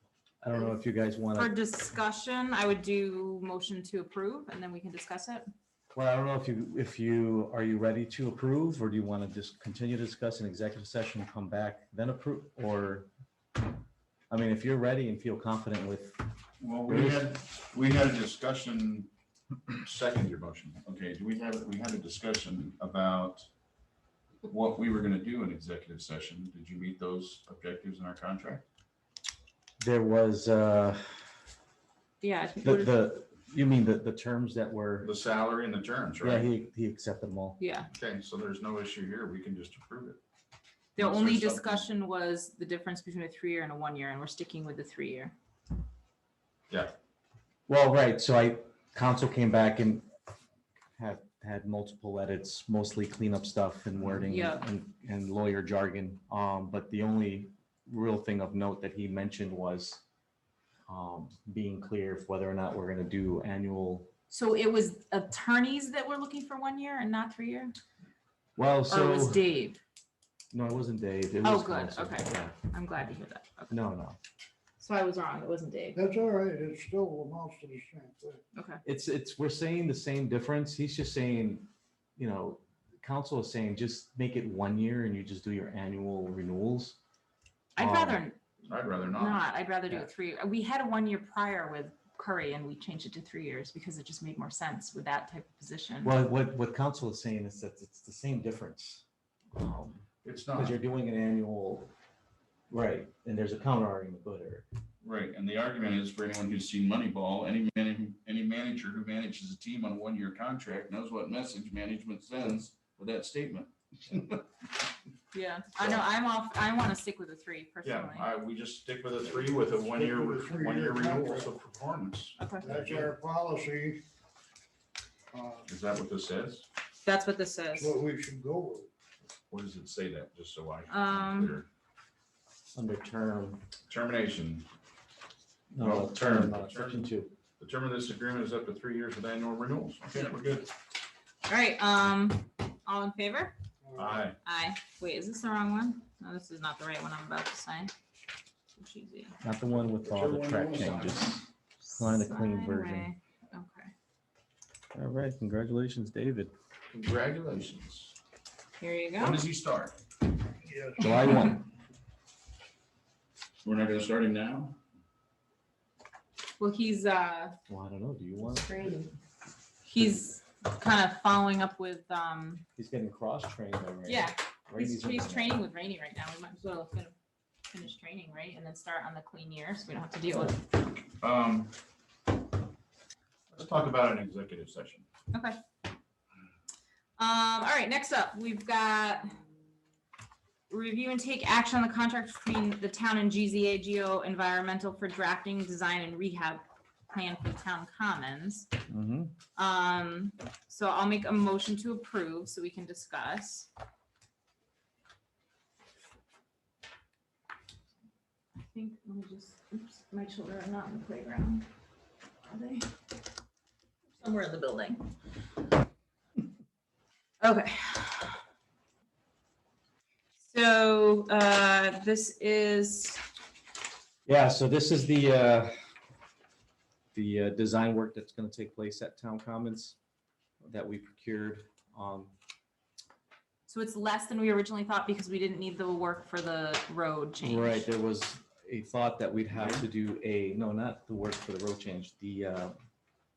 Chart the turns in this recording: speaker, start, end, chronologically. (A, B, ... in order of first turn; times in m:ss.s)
0:00.4-0:01.5 A
0:01.4-0:05.5 B
0:05.9-0:13.1 A
0:14.3-0:16.2 A
0:16.6-0:19.1 C
0:16.9-0:17.3 A
0:19.7-0:23.5 C
0:24.5-0:28.6 C
0:29.8-0:31.2 A
0:32.2-0:32.9 B
0:32.6-0:35.1 A
0:35.0-0:36.5 C
0:36.2-0:37.6 A
0:37.6-0:37.9 B
0:37.9-0:40.2 C
0:41.0-0:45.3 B
0:41.0-0:41.8 C
0:47.7-0:50.0 A
0:51.0-1:00.0 A
0:54.3-0:54.6 B
1:00.9-1:04.1 A
1:04.3-1:07.7 B
1:08.6-1:09.4 A
1:08.9-1:09.8 B
1:10.5-1:12.6 A
1:11.4-1:13.8 B
1:13.7-1:14.2 A
1:14.8-1:16.0 B
1:15.9-1:18.4 D
1:18.5-1:18.8 B
1:18.8-1:27.0 A
1:27.8-1:28.4 B
1:27.8-1:28.2 A
1:28.6-1:29.4 C
1:29.1-1:36.1 B
1:36.0-1:41.9 A
1:40.2-1:40.8 C
1:42.7-1:44.6 A
1:45.0-1:54.5 C
1:55.3-1:58.3 B
1:57.8-2:03.1 C
1:59.9-2:01.5 D
2:02.4-2:02.7 B
2:02.6-2:04.0 D
2:05.3-2:05.6 D
2:05.7-2:06.6 C
2:07.0-2:08.0 B
2:07.8-2:08.9 D
2:09.5-2:11.7 C
2:10.9-2:11.6 B
2:12.7-2:13.6 A
2:13.9-2:14.6 C
2:15.7-2:17.3 A
2:15.8-2:17.1 C
2:17.6-2:20.7 C
2:21.4-2:23.5 B
2:23.8-2:24.2 D
2:23.9-2:24.4 C
2:24.4-2:27.9 B
2:28.7-2:29.4 B
2:29.4-2:33.1 A
2:30.0-2:31.3 C
2:31.8-2:33.9 B
2:34.9-2:36.5 A
2:36.9-2:38.2 C
2:38.8-2:39.4 B
2:39.2-2:40.0 C
2:40.6-2:41.1 D
2:41.0-2:41.6 A
2:43.6-2:44.8 C
2:46.6-2:47.6 B
2:47.7-2:48.7 A
2:48.5-2:49.1 B
2:49.8-2:52.6 B
2:52.8-2:55.6 A
2:54.1-2:57.1 B
2:57.7-3:00.7 B
3:01.2-3:01.7 C
3:03.5-3:05.0 C
3:05.3-3:05.6 B
3:07.2-3:09.4 B
3:10.7-3:18.7 B
3:18.9-3:19.3 A
3:19.6-3:23.7 B
3:28.6-3:31.6 B
3:32.4-3:32.9 B
3:34.1-3:35.1 B
3:37.4-3:38.4 B
3:40.4-3:43.2 B
3:44.2-3:45.7 A
3:47.1-3:50.0 A
3:50.6-3:52.3 A
3:53.7-3:57.8 B
3:57.4-4:02.7 A
3:59.5-3:59.8 C